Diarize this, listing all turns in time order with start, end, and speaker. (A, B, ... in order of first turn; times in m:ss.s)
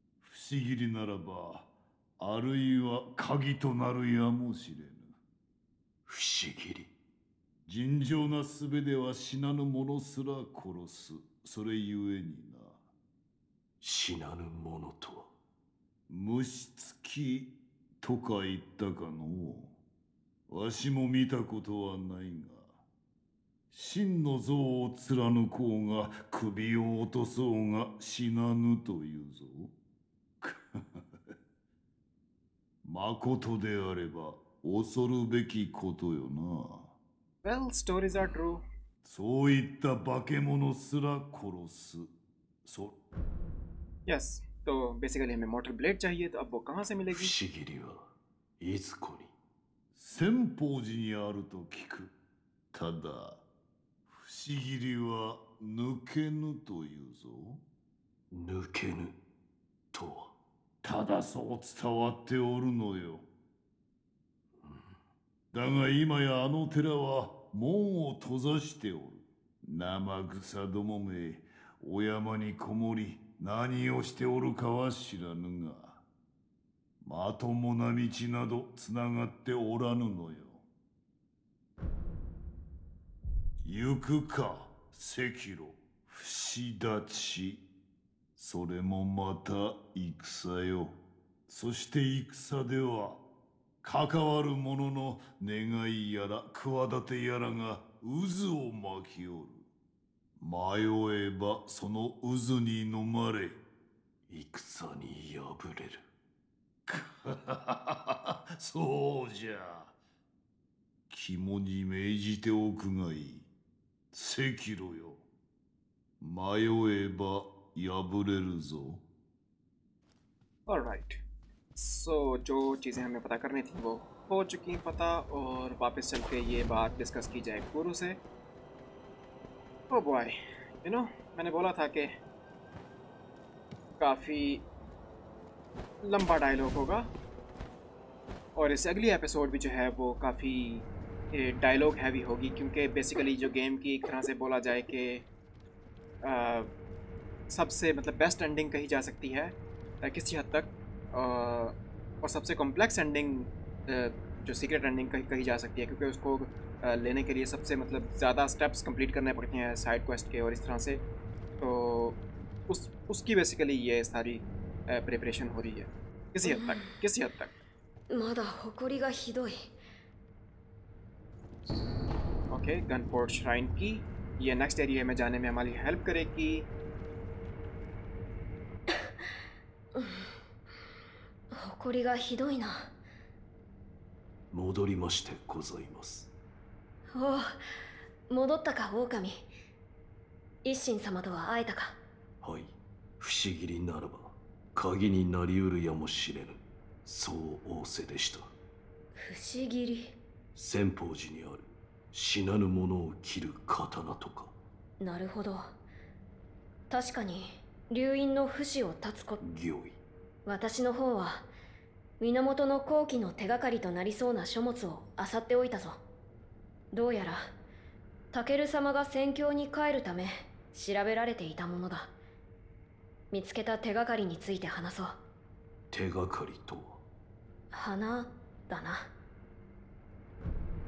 0:00.2-0:01.7 A
0:02.2-0:05.2 A
0:06.0-0:06.9 B
0:07.7-0:12.8 A
0:13.8-0:15.3 B
0:16.1-0:19.8 A
0:20.5-0:22.7 A
0:23.7-0:29.7 A
0:30.4-0:31.0 A
0:32.8-0:36.9 A
0:37.4-0:38.6 C
0:39.0-0:42.1 A
0:42.6-0:42.9 A
0:44.0-0:47.3 C
0:47.1-0:49.3 B
0:49.9-0:52.1 A
0:52.7-0:53.4 A
0:54.1-0:57.6 A
0:58.3-0:59.2 B
0:59.9-1:00.3 B
1:00.8-1:03.2 A
1:04.6-1:04.9 B
1:05.5-1:16.0 A
1:17.0-1:20.6 A
1:23.6-1:27.6 A
1:28.4-1:31.0 A
1:31.5-1:33.2 A
1:33.8-1:39.6 A
1:40.4-1:43.6 A
1:44.3-1:46.0 B
1:46.9-1:49.9 A
1:51.1-1:53.5 A
1:54.1-1:55.2 A
1:56.2-1:59.0 A
2:00.7-2:01.2 C
2:01.8-2:08.2 C
2:09.9-2:12.1 C
2:14.0-2:14.6 C
2:16.0-2:17.0 C
2:18.6-2:25.2 C
2:26.2-2:26.7 C
2:27.5-2:41.0 C
2:41.6-2:47.5 C
2:46.4-2:46.8 D
2:48.1-2:49.7 D
2:52.5-2:56.7 C
3:00.0-3:00.2 D
3:01.5-3:02.9 D
3:04.5-3:06.3 B
3:07.1-3:07.6 D
3:08.3-3:09.5 D
3:10.6-3:12.0 D
3:12.4-3:18.5 B
3:19.2-3:20.2 D
3:20.5-3:24.5 B
3:25.0-3:25.7 D
3:26.9-3:29.4 D
3:29.4-3:30.0 B
3:30.4-3:31.5 D
3:32.2-3:36.0 D
3:36.9-3:37.5 D
3:38.3-3:42.1 D
3:43.3-3:45.2 D
3:45.9-3:47.0 B
3:47.7-3:49.1 D